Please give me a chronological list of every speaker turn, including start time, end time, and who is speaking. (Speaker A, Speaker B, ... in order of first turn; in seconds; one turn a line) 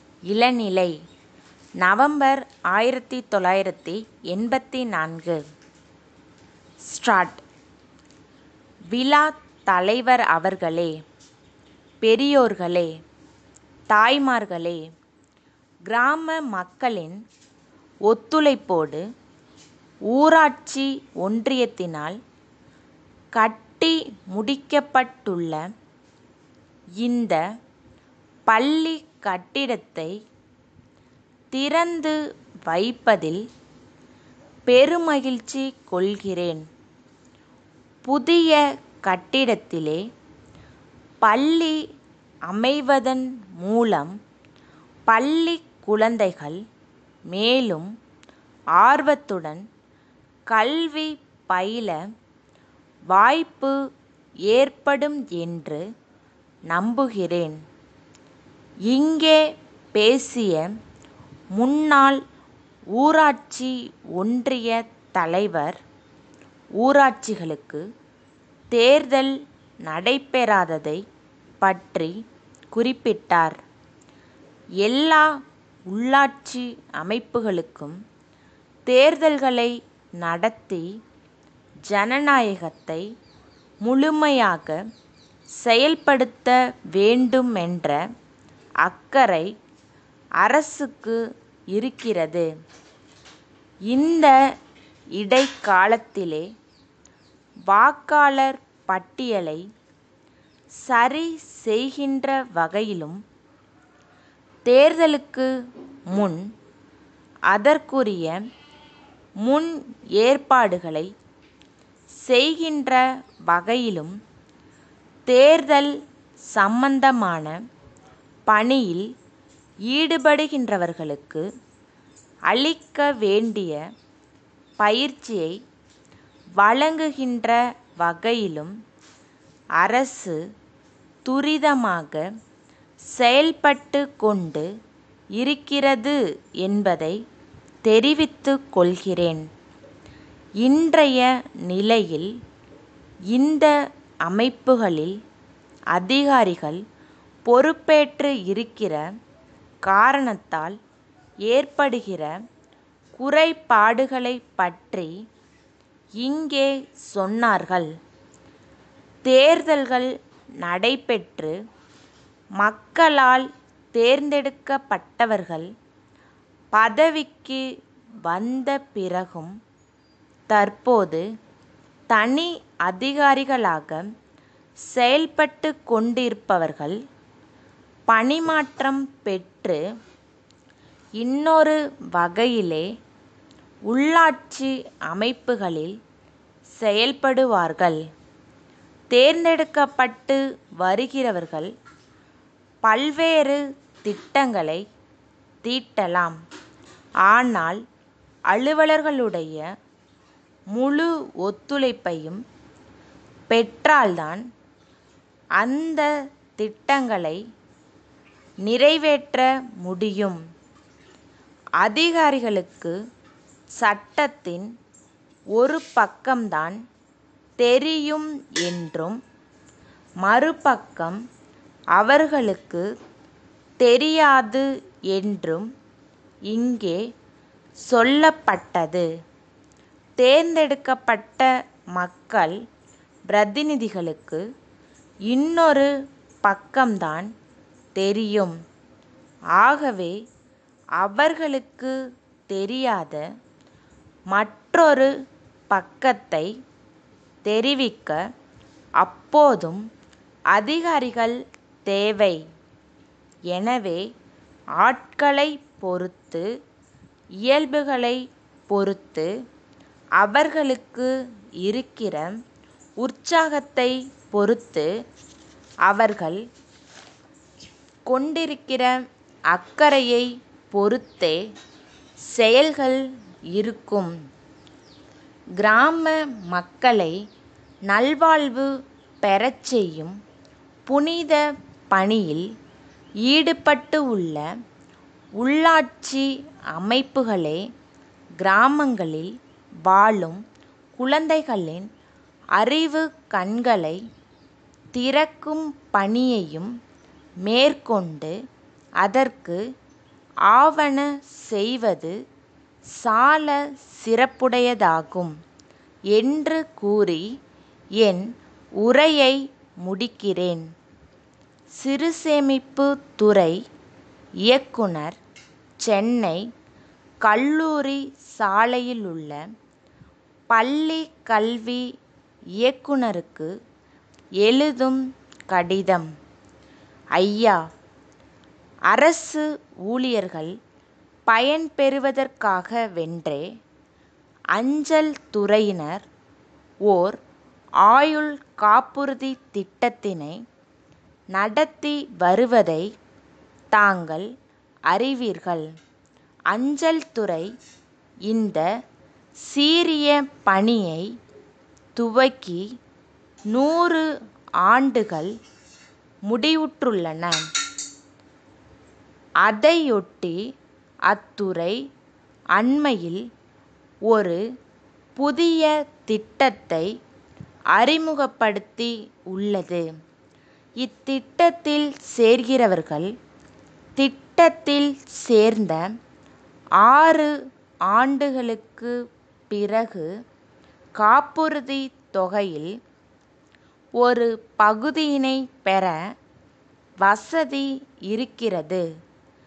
Speaker A: 0.3-0.9
Speaker A: 1.8-5.4
Speaker A: 6.9-7.4
Speaker A: 8.9-10.9
Speaker A: 12.0-12.9
Speaker A: 13.9-14.8
Speaker A: 15.9-17.2
Speaker A: 18.1-19.0
Speaker A: 20.1-22.2
Speaker A: 23.4-25.6
Speaker A: 27.0-27.4
Speaker A: 28.5-30.1
Speaker A: 31.5-32.2
Speaker A: 32.7-33.4
Speaker A: 34.7-36.6
Speaker A: 38.1-40.0
Speaker A: 41.2-41.8
Speaker A: 42.5-44.1
Speaker A: 45.1-46.6
Speaker A: 47.3-47.9
Speaker A: 48.8-49.6
Speaker A: 50.5-52.0
Speaker A: 53.1-53.8
Speaker A: 54.5-55.8
Speaker A: 56.7-57.6
Speaker A: 58.9-59.4
Speaker A: 60.0-60.7
Speaker A: 61.6-62.2
Speaker A: 63.0-65.8
Speaker A: 66.8-67.8
Speaker A: 68.7-69.3
Speaker A: 69.8-71.0
Speaker A: 71.6-72.1
Speaker A: 72.7-73.6
Speaker A: 74.8-75.3
Speaker A: 75.9-78.0
Speaker A: 78.9-80.9
Speaker A: 81.9-83.0
Speaker A: 83.8-84.8
Speaker A: 85.6-88.0
Speaker A: 88.8-89.5
Speaker A: 90.4-91.2
Speaker A: 91.7-92.5
Speaker A: 93.9-94.3
Speaker A: 95.2-96.5
Speaker A: 97.7-99.6
Speaker A: 100.9-103.2
Speaker A: 104.7-105.5
Speaker A: 106.1-106.4
Speaker A: 107.5-108.4
Speaker A: 109.4-111.1
Speaker A: 112.2-114.2
Speaker A: 115.3-115.9
Speaker A: 116.5-117.6
Speaker A: 118.5-119.1
Speaker A: 119.9-121.4
Speaker A: 122.5-123.8
Speaker A: 124.8-125.6
Speaker A: 126.6-128.7
Speaker A: 129.8-130.4
Speaker A: 131.3-132.2
Speaker A: 133.1-134.7
Speaker A: 135.4-137.2
Speaker A: 137.9-139.5
Speaker A: 140.6-142.3
Speaker A: 143.3-143.7
Speaker A: 144.3-145.2
Speaker A: 145.9-146.8
Speaker A: 147.5-149.0
Speaker A: 149.8-150.8
Speaker A: 151.5-152.3
Speaker A: 153.2-155.1
Speaker A: 156.2-157.9
Speaker A: 159.3-160.1
Speaker A: 160.6-161.6
Speaker A: 162.6-165.7
Speaker A: 166.7-167.6
Speaker A: 168.3-169.5
Speaker A: 170.5-171.2
Speaker A: 172.1-174.0
Speaker A: 174.9-177.0
Speaker A: 178.1-179.8
Speaker A: 181.2-182.9
Speaker A: 183.9-185.9
Speaker A: 186.8-188.0
Speaker A: 189.1-191.7
Speaker A: 192.8-194.8
Speaker A: 195.6-196.4
Speaker A: 197.3-197.8
Speaker A: 198.5-199.6
Speaker A: 200.7-202.4
Speaker A: 203.5-204.4
Speaker A: 205.6-206.1
Speaker A: 206.6-207.4
Speaker A: 208.7-210.4
Speaker A: 211.8-212.9
Speaker A: 213.8-214.7
Speaker A: 215.6-216.8
Speaker A: 217.6-219.2
Speaker A: 220.2-221.2
Speaker A: 222.0-222.8
Speaker A: 223.8-225.7
Speaker A: 226.5-227.0
Speaker A: 227.9-229.1
Speaker A: 230.2-232.6
Speaker A: 233.3-234.4
Speaker A: 235.3-235.9
Speaker A: 236.4-237.3
Speaker A: 238.0-238.6
Speaker A: 239.6-240.2
Speaker A: 241.0-241.9
Speaker A: 242.5-243.2
Speaker A: 244.3-245.1
Speaker A: 245.7-246.5
Speaker A: 247.4-248.2
Speaker A: 249.0-249.8
Speaker A: 250.5-252.4
Speaker A: 253.5-254.0
Speaker A: 254.8-256.4
Speaker A: 257.4-259.3
Speaker A: 260.2-261.1
Speaker A: 261.6-262.3
Speaker A: 263.0-264.9
Speaker A: 265.9-266.4
Speaker A: 268.1-268.9
Speaker A: 269.5-271.4
Speaker A: 272.3-274.1
Speaker A: 275.6-277.1
Speaker A: 277.9-278.7
Speaker A: 279.2-280.1
Speaker A: 280.9-282.4
Speaker A: 283.2-284.4
Speaker A: 285.4-287.6
Speaker A: 288.4-289.3
Speaker A: 289.9-290.4
Speaker A: 291.0-291.9
Speaker A: 292.6-294.0
Speaker A: 294.9-296.7
Speaker A: 297.4-298.3
Speaker A: 299.0-299.6
Speaker A: 300.5-302.1
Speaker A: 303.0-305.3
Speaker A: 306.1-307.2
Speaker A: 308.8-310.6
Speaker A: 311.8-313.6
Speaker A: 314.5-315.2
Speaker A: 315.8-316.4
Speaker A: 317.2-319.4
Speaker A: 320.5-321.9
Speaker A: 322.6-323.5
Speaker A: 324.4-326.1
Speaker A: 327.2-327.6
Speaker A: 328.9-330.5
Speaker A: 331.3-333.5
Speaker A: 334.6-336.1
Speaker A: 336.9-337.2
Speaker A: 337.8-340.4
Speaker A: 341.3-342.9
Speaker A: 343.7-344.3
Speaker A: 344.9-345.7
Speaker A: 346.5-347.5
Speaker A: 348.3-348.7
Speaker A: 349.5-351.1
Speaker A: 352.0-352.6
Speaker A: 353.5-354.0
Speaker A: 354.6-355.3
Speaker A: 356.3-357.4
Speaker A: 359.4-360.4
Speaker A: 361.1-361.8
Speaker A: 362.6-363.2
Speaker A: 364.1-364.4
Speaker A: 365.2-366.9
Speaker A: 367.7-369.9
Speaker A: 370.8-373.1
Speaker A: 374.0-375.9
Speaker A: 376.8-377.3
Speaker A: 377.9-378.9
Speaker A: 379.5-380.1
Speaker A: 381.0-382.7
Speaker A: 384.0-386.0
Speaker A: 387.0-388.8